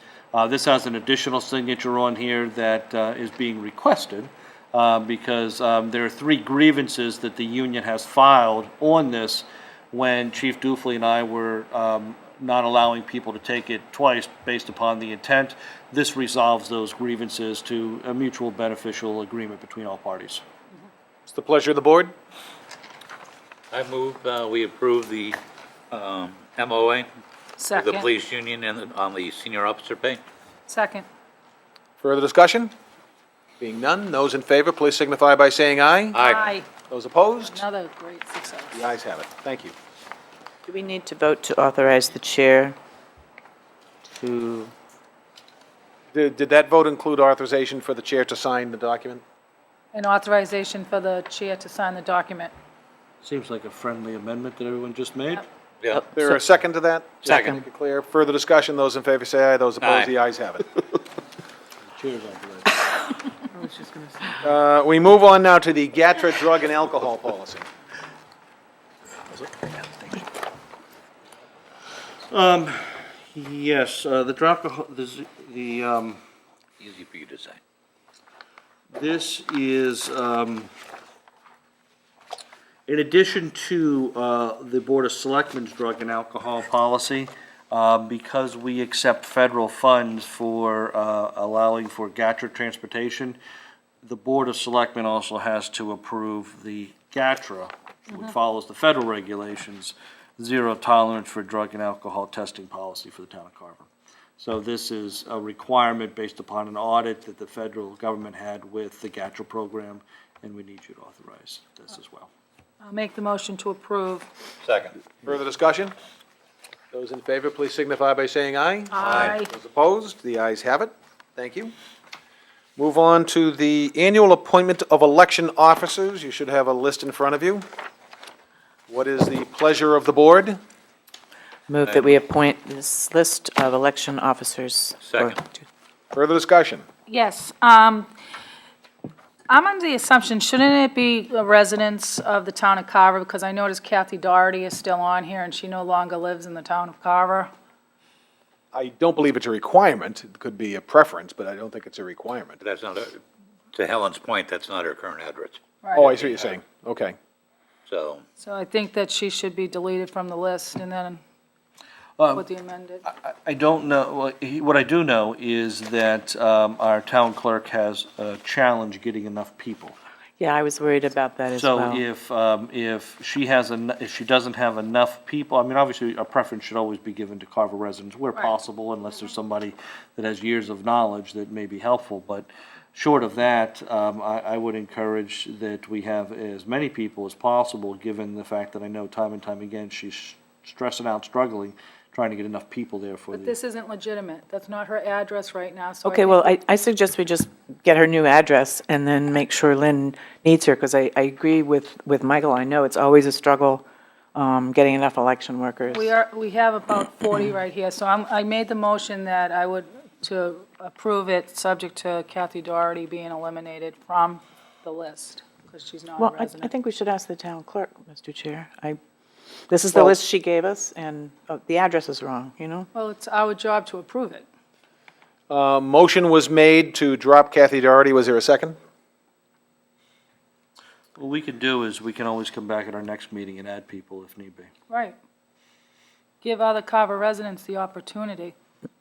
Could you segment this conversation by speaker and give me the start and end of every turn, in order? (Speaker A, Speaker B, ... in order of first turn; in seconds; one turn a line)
Speaker A: 0.3-20.4
Speaker B: 21.3-22.1
Speaker C: 23.7-25.4
Speaker C: 25.9-27.1
Speaker D: 27.6-28.1
Speaker C: 27.7-30.2
Speaker D: 30.7-31.1
Speaker B: 32.0-32.7
Speaker B: 33.6-36.2
Speaker C: 36.1-36.5
Speaker D: 36.2-36.7
Speaker B: 36.9-37.6
Speaker D: 37.4-38.8
Speaker B: 38.7-39.7
Speaker E: 40.7-42.8
Speaker E: 44.2-44.7
Speaker B: 46.1-49.2
Speaker D: 49.9-52.5
Speaker A: 53.2-55.4
Speaker C: 55.8-56.1
Speaker E: 55.9-56.2
Speaker B: 56.1-60.7
Speaker E: 57.2-57.5
Speaker C: 57.2-57.6
Speaker C: 59.8-60.1
Speaker A: 61.8-62.8
Speaker E: 63.6-64.4
Speaker B: 64.4-67.7
Speaker B: 69.3-70.2
Speaker A: 72.3-76.2
Speaker C: 76.8-77.6
Speaker A: 78.9-80.7
Speaker A: 82.9-93.4
Speaker A: 94.0-112.3
Speaker D: 112.8-114.3
Speaker C: 114.6-115.0
Speaker B: 115.2-115.9
Speaker B: 116.9-121.7
Speaker D: 118.9-119.5
Speaker C: 119.0-119.3
Speaker B: 122.8-127.6
Speaker B: 128.9-130.6
Speaker E: 131.7-135.6
Speaker C: 131.8-132.2
Speaker C: 135.0-135.4
Speaker B: 136.1-136.8
Speaker D: 137.1-138.1
Speaker D: 139.5-147.5
Speaker B: 148.7-152.6
Speaker C: 152.6-153.2
Speaker C: 153.7-156.5
Speaker D: 155.8-156.1
Speaker B: 155.9-157.2
Speaker C: 157.9-158.2
Speaker D: 158.4-161.2
Speaker A: 162.2-162.4
Speaker D: 162.3-163.0
Speaker A: 163.0-169.9
Speaker E: 170.4-172.0
Speaker A: 171.5-193.5
Speaker D: 193.3-196.5
Speaker E: 196.0-203.8
Speaker E: 204.3-206.1
Speaker D: 205.9-216.7
Speaker E: 216.2-219.0
Speaker E: 219.7-222.9
Speaker D: 222.9-224.4
Speaker B: 225.5-228.8
Speaker A: 231.2-234.7
Speaker D: 234.9-235.2
Speaker D: 236.4-238.5